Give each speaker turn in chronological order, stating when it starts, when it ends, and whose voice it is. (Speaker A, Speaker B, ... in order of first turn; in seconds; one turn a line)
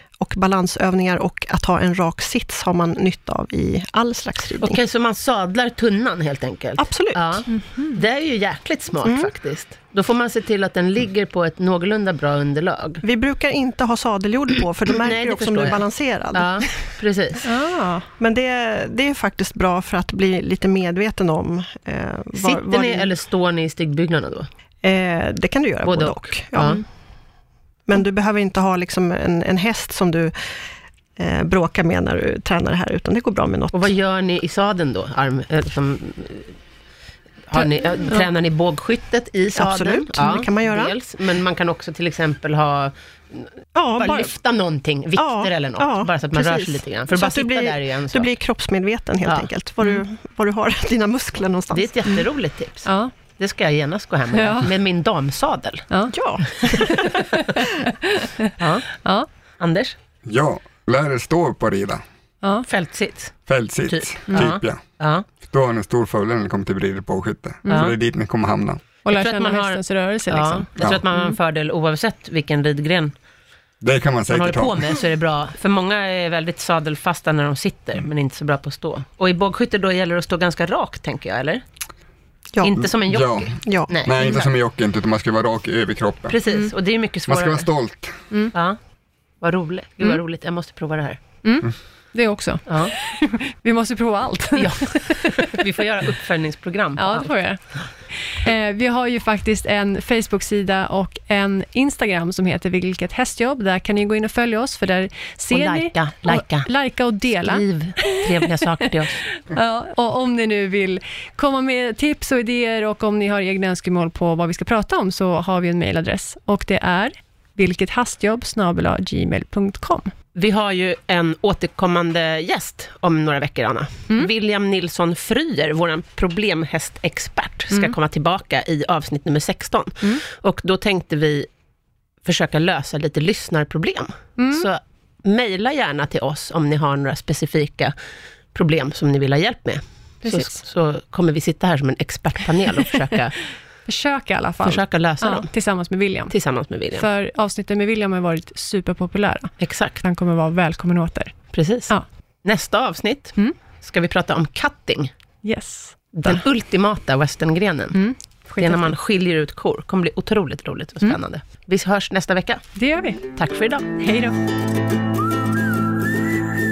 Speaker A: 0.2-4.8
Speaker B: 4.6-13.0
Speaker A: 6.8-7.5
Speaker C: 7.5-8.0
Speaker A: 9.1-9.3
Speaker A: 13.0-16.9
Speaker B: 15.0-17.5
Speaker C: 17.4-18.1
Speaker A: 18.2-23.1
Speaker B: 22.3-24.5
Speaker A: 24.8-26.8
Speaker B: 25.9-26.8
Speaker A: 27.9-30.3
Speaker A: 31.2-33.9
Speaker B: 33.7-36.6
Speaker B: 37.5-48.3
Speaker A: 39.5-41.0
Speaker A: 43.8-44.4
Speaker A: 45.2-51.9
Speaker B: 49.2-49.5
Speaker B: 51.7-55.9
Speaker C: 52.9-53.1
Speaker C: 54.3-54.7
Speaker C: 55.9-56.2
Speaker A: 56.1-57.7
Speaker C: 56.7-58.5
Speaker B: 58.6-58.9
Speaker B: 59.6-60.0
Speaker D: 60.2-62.0
Speaker B: 62.7-63.4
Speaker D: 63.5-64.8
Speaker B: 63.9-65.3
Speaker D: 65.4-68.8
Speaker C: 67.7-67.9
Speaker B: 67.7-67.9
Speaker C: 69.0-71.4
Speaker B: 69.1-73.2
Speaker D: 73.8-74.9
Speaker B: 74.3-81.6
Speaker A: 82.5-82.9
Speaker B: 82.6-84.5
Speaker D: 83.1-86.4
Speaker A: 83.6-83.9
Speaker B: 86.3-87.7
Speaker D: 87.3-88.2
Speaker B: 89.4-91.2
Speaker C: 91.4-95.6
Speaker B: 92.7-92.9
Speaker B: 94.5-97.3
Speaker C: 97.0-108.2
Speaker B: 105.5-106.7
Speaker B: 107.4-109.2
Speaker C: 109.5-120.1
Speaker B: 120.3-131.5
Speaker B: 132.2-137.9
Speaker C: 134.4-134.7
Speaker B: 138.5-143.4
Speaker C: 140.2-140.5
Speaker C: 143.9-146.3
Speaker B: 144.6-145.5
Speaker B: 146.3-147.1
Speaker C: 146.9-151.4
Speaker B: 149.6-150.0
Speaker B: 151.5-151.9
Speaker B: 152.4-155.1
Speaker C: 155.4-156.4
Speaker B: 156.2-158.0
Speaker C: 157.9-158.9
Speaker B: 158.6-162.6
Speaker C: 162.8-163.3
Speaker B: 163.4-163.9
Speaker C: 164.0-164.4